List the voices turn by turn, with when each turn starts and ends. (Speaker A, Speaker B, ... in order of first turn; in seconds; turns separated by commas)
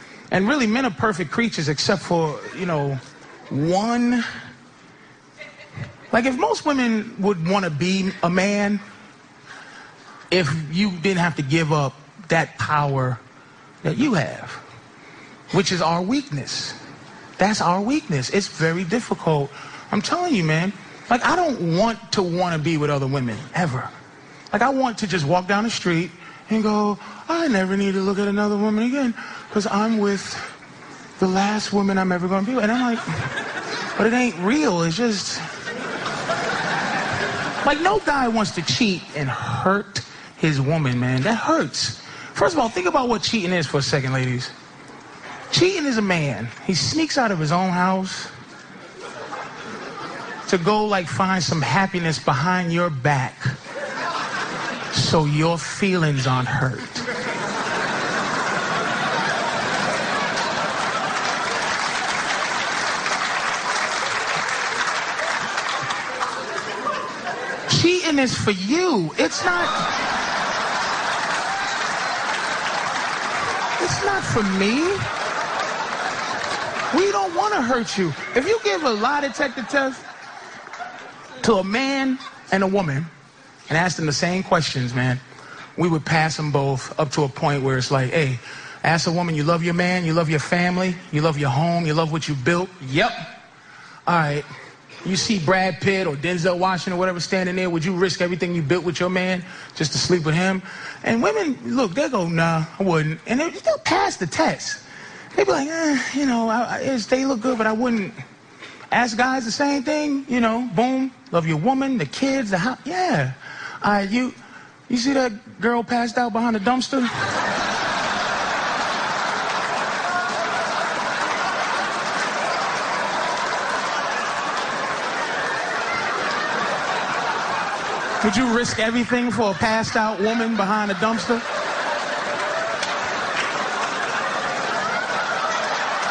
Speaker A: 0.3-4.2, Speaker A: 6.1-8.8, Speaker A: 10.3-13.2, Speaker A: 13.8-14.6, Speaker A: 15.5-16.8, Speaker A: 17.4-23.9, Speaker A: 24.5-30.5, Speaker A: 31.2-33.1, Speaker A: 34.0-35.5, Speaker A: 37.6-44.5, Speaker A: 45.5-48.3, Speaker A: 50.5-53.6, Speaker A: 54.9-57.1, Speaker A: 67.7-69.8, Speaker A: 73.8-75.1, Speaker A: 76.9-80.0, Speaker A: 81.4-83.1, Speaker A: 83.7-85.2, Speaker A: 85.8-93.4, Speaker A: 94.1-94.5, Speaker A: 95.0-108.2, Speaker A: 108.9-114.4, Speaker A: 114.9-117.1, Speaker A: 128.2-131.4